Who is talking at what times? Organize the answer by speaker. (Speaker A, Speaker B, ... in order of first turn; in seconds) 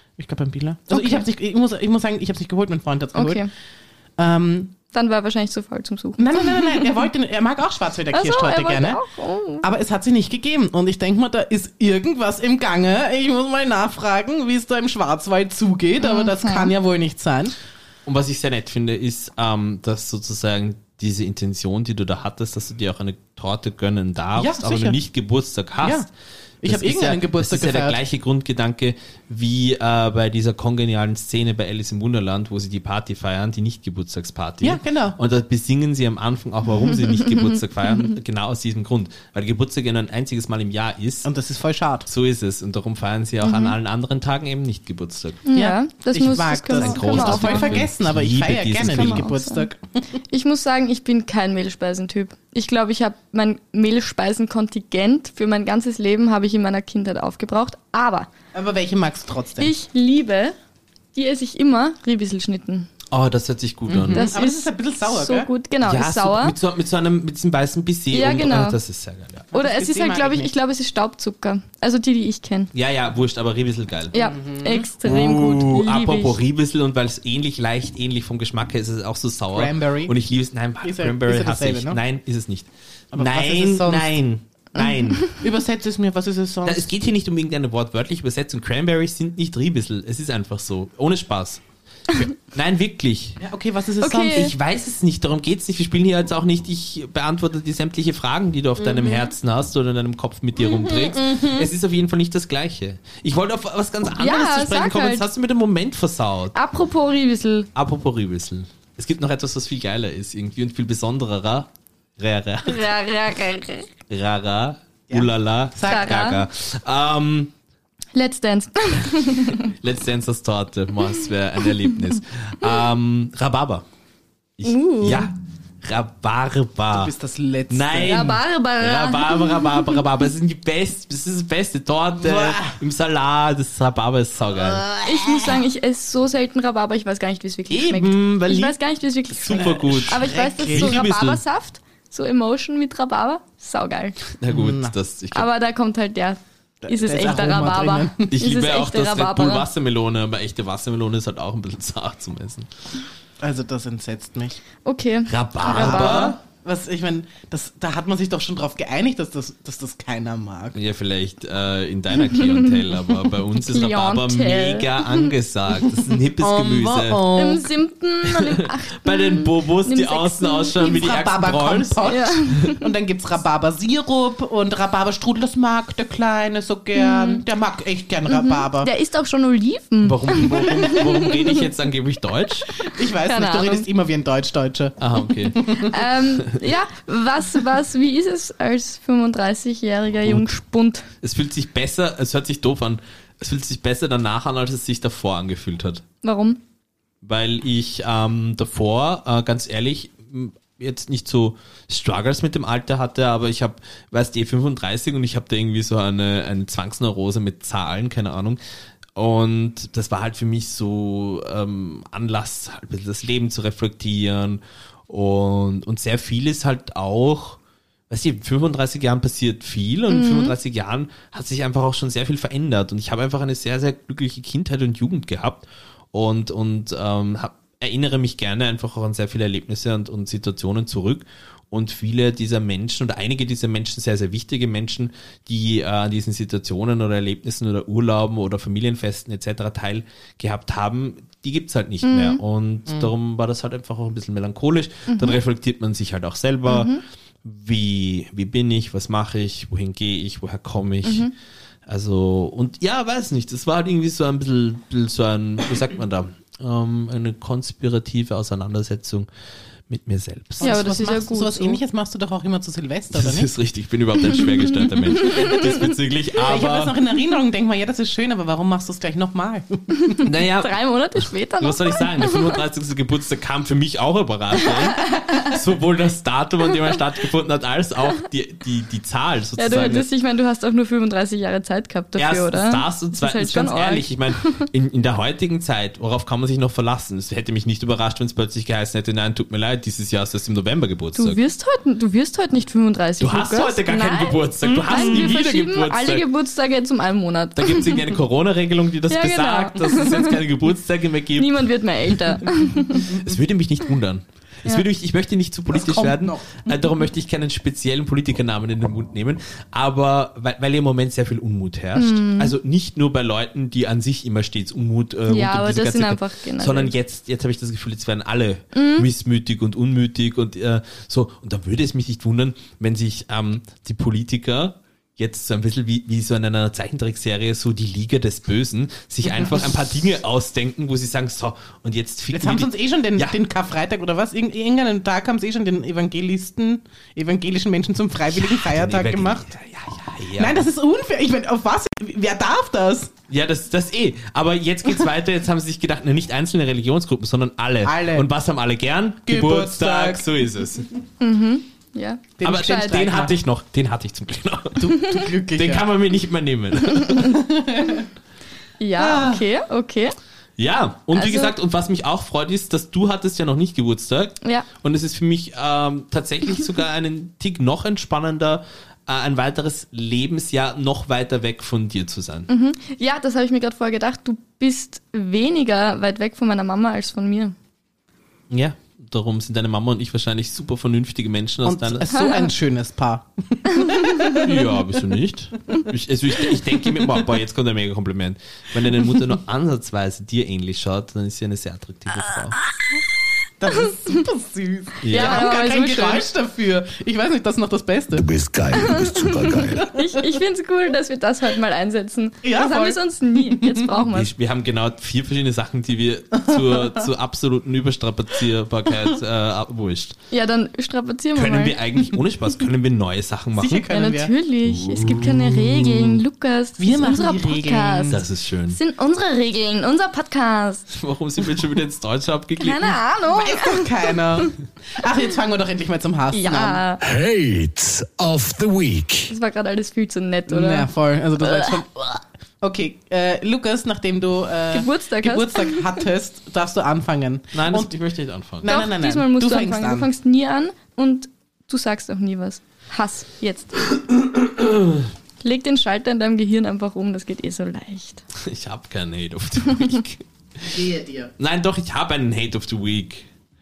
Speaker A: 0.2-3.4, 4.2-4.7, 6.2-9.0, 9.6-17.5, 24.4-25.0, 25.8-26.1, 26.6-28.0, 34.6-35.2, 41.2-42.1, 45.5-49.8, 58.5-59.7, 63.9-65.5, 69.5-70.5, 74.1-74.9, 79.5-80.1, 80.8-82.0, 83.1-84.1, 85.3-86.9, 93.4-94.5, 100.7-101.7, 115.1-116.1, 126.9-128.3, 132.2-132.7, 139.6-141.0, 144.5-144.9, 146.8-148.3, 153.4-154.6, 155.6-160.8, 166.4-167.7, 170.8-178.9, 182.8-185.9, 260.6-263.5, 266.4-270.1, 305.7-306.6, 329.3-329.6, 332.3-339.5, 340.4-343.1, 347.8-348.3, 349.3-350.4, 352.4-353.3, 354.8-355.9, 357.2-358.1, 359.0-359.4, 381.6-384.5, 393.6-398.2, 402.4-403.9, 406.5-407.0, 413.5-414.3, 416.8-418.2, 423.3-426.8, 430.5-437.9, 438.6-440.1, 450.7-451.3
Speaker B: 0.9-1.2, 3.1-3.5, 4.9-6.9, 8.1-9.6, 16.0-16.7, 43.4-43.7, 45.5-47.8, 48.9-49.6, 50.3-58.3, 59.6-60.5, 61.1-62.9, 64.1-66.5, 68.1-68.8, 69.5-72.7, 74.1-76.4, 84.8-85.3, 94.0-94.5, 104.2-105.3, 106.5-107.7, 112.7-113.9, 115.8-116.4, 118.1-119.7, 124.6-125.3, 128.1-129.9, 135.0-144.2, 145.3-149.7, 154.8-156.4, 162.2-162.8, 163.5-165.3, 167.3-171.0, 172.0-172.8, 176.9-177.4, 178.3-181.6, 182.8-183.8, 185.7-191.1, 196.2-196.6, 220.1-220.5, 242.0-242.4, 245.1-245.4, 246.7-247.0, 251.0-251.3, 260.6-261.8, 265.1-265.6, 270.1-272.6, 274.6-275.5, 279.6-284.7, 291.1-298.0, 299.1-300.4, 301.4-303.2, 311.9-312.5, 315.3-316.9, 318.7-319.1, 351.2-352.9, 358.8-360.1, 361.1-361.5, 372.5-377.5, 382.1-382.5, 383.7-384.4, 395.1-396.2, 398.8-404.3, 410.3-411.8, 413.9-420.9, 422.6-424.5, 426.3-427.0, 429.3-430.9, 431.4-431.8, 434.7-435.9, 438.6-443.8, 445.4-448.2
Speaker C: 18.1-26.1, 26.6-41.3, 42.1-45.4, 46.7-49.3, 63.1-64.3, 65.8-69.5, 72.7-74.2, 75.0-85.3, 86.6-93.4, 94.2-106.5, 107.7-112.9, 114.1-117.5, 119.5-123.8, 124.6-125.3, 125.8-127.1, 127.7-135.0, 137.7-138.8, 139.3-141.4, 144.4-145.5, 148.3-152.7, 155.3-156.4, 160.7-167.3, 168.2-172.1, 180.0-182.7, 185.0-186.6, 190.2-190.5, 191.2-196.0, 197.2-208.6, 209.2-217.6, 218.1-246.9, 247.4-251.3, 251.9-259.3, 259.9-260.8, 263.1-266.9, 270.2-270.7, 271.6-280.1, 282.2-291.4, 293.2-296.2, 297.6-333.4, 338.3-340.6, 343.3-350.9, 352.4-357.4, 360.6-372.5, 378.5-382.1, 384.3-392.6, 395.0-395.5, 404.1-410.2, 411.3-413.9, 414.6-416.2, 418.1-418.8, 420.9-423.0, 437.5-438.7, 444.1-445.1, 448.4-450.8, 451.4-453.3
Speaker D: 398.1-399.9, 427.0-429.3